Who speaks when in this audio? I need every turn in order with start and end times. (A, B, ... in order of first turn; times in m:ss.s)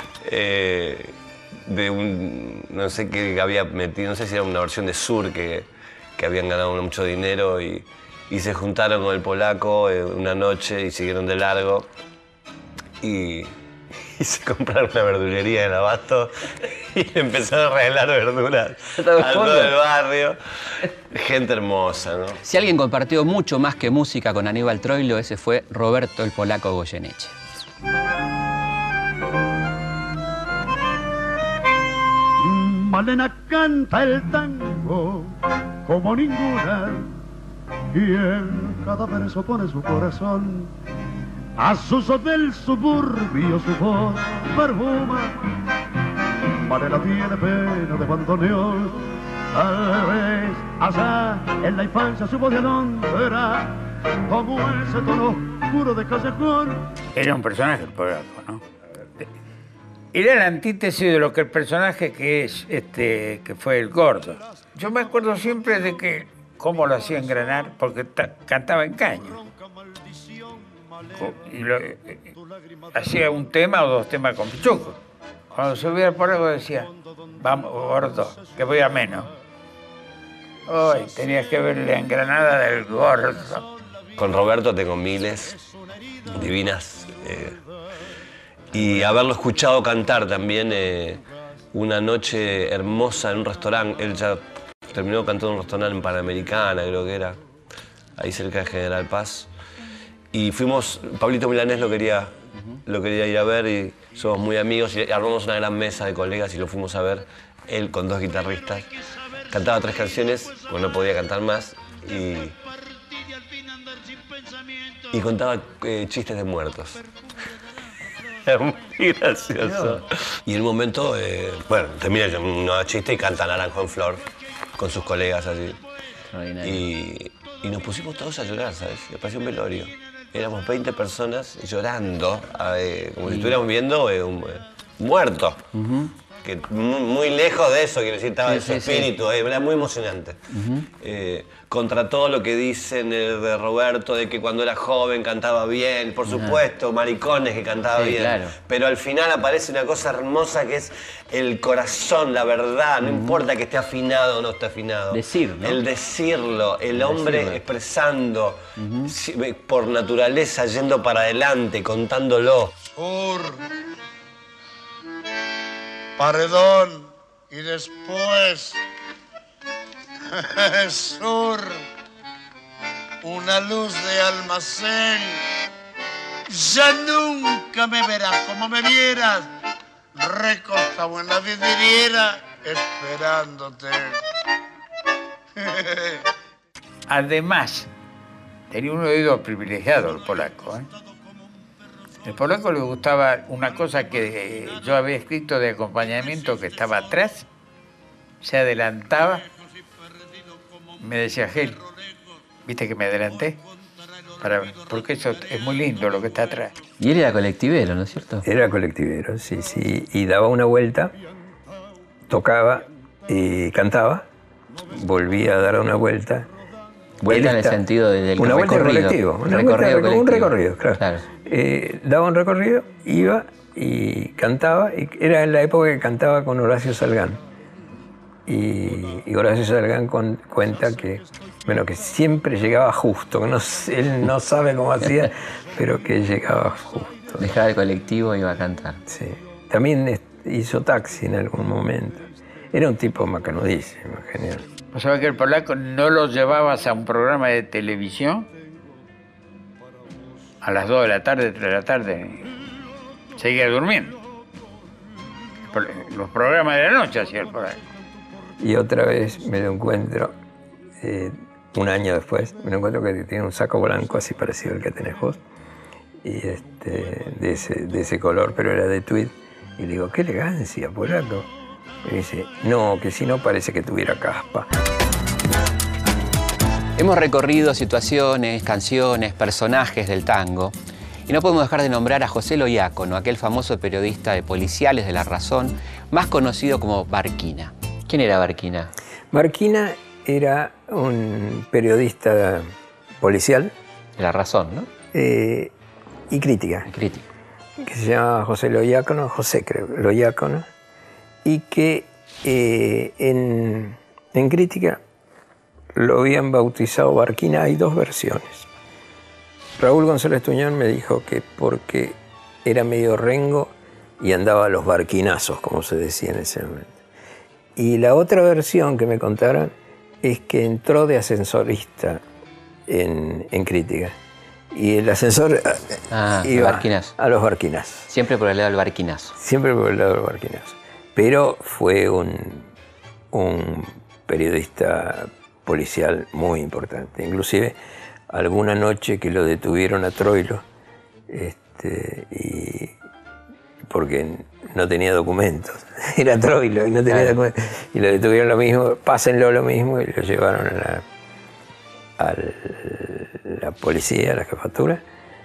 0:00.2-0:11.9 A
0:13.0-0:13.5 A
0:14.2-0:20.4 A
0:19.0-0:19.7 B
0:21.1-0:22.4 A
0:22.4-0:27.3 B
0:32.4-0:35.3 C
0:35.8-0:37.1 C
0:37.9-0:40.7 C
0:41.6-0:45.4 C
0:46.6-0:56.9 C
0:57.1-0:58.6 D
1:00.1-1:09.4 D
1:11.2-1:12.3 D
1:12.9-1:15.0 D
1:15.5-1:19.3 D
1:20.7-1:23.6 D
1:24.2-1:25.6 A
1:26.3-1:27.6 A
1:28.7-1:37.4 A
1:38.2-1:39.5 A
1:40.3-1:42.3 A
1:42.8-1:48.9 A
1:49.5-1:52.5 A
1:53.5-1:54.3 E
1:55.1-1:57.0 A
1:58.4-2:04.2 A
1:59.6-2:00.0 B
2:04.8-2:05.8 A
2:06.2-2:06.8 B
2:06.6-2:15.6 A
2:13.2-2:13.6 B
2:15.7-2:16.1 B
2:16.4-2:42.7 A
2:18.4-2:19.1 B
2:20.5-2:20.9 B
2:26.2-2:26.6 B
2:27.9-2:28.6 B
2:33.0-2:33.4 B
2:35.1-2:35.8 B
2:36.9-2:37.6 B
2:38.8-2:39.1 B
2:43.0-2:43.5 E
2:46.2-2:48.8 E
2:50.4-2:51.7 E
2:53.2-2:55.4 E
2:56.5-2:59.5 E
3:00.2-3:04.2 E
3:05.6-3:06.2 E
3:07.1-3:07.9 D
3:08.7-3:10.9 D
3:12.2-3:17.4 D
3:18.4-3:19.4 D
3:21.0-3:21.8 D
3:22.6-3:23.6 D
3:24.4-3:26.7 D
3:27.0-3:28.4 B
3:28.4-3:31.1 F
3:32.3-3:34.2 F
3:34.9-3:36.5 F
3:37.2-3:41.2 B
3:37.3-3:37.8 F
3:38.4-3:47.4 F
3:48.5-3:57.5 F
3:57.4-3:59.0 B
3:59.1-4:04.6 F
4:04.9-4:08.5 D
4:10.6-4:12.5 D
4:13.4-4:14.2 D
4:15.7-4:17.8 D
4:18.6-4:20.3 F
4:21.0-4:25.4 F
4:26.2-4:31.5 F
4:32.0-4:34.7 F
4:37.0-4:40.7 B
4:41.3-4:48.9 B
4:49.3-4:53.7 F
4:54.2-4:54.9 B
4:55.1-4:55.7 F
4:56.3-4:56.9 F
4:56.9-4:57.2 B
4:57.8-5:00.7 F
5:01.4-5:05.0 F
5:05.9-5:08.7 F
5:09.8-5:16.9 F
5:17.8-5:22.2 F
5:22.9-5:24.2 F
5:24.7-5:28.1 F
5:26.1-5:27.1 B
5:28.1-5:29.3 B
5:29.4-5:32.7 F
5:33.3-5:37.8 F
5:38.3-5:40.6 F
5:41.3-5:42.9 F
5:43.9-5:51.0 F
5:47.1-5:47.3 B
5:52.2-5:55.0 F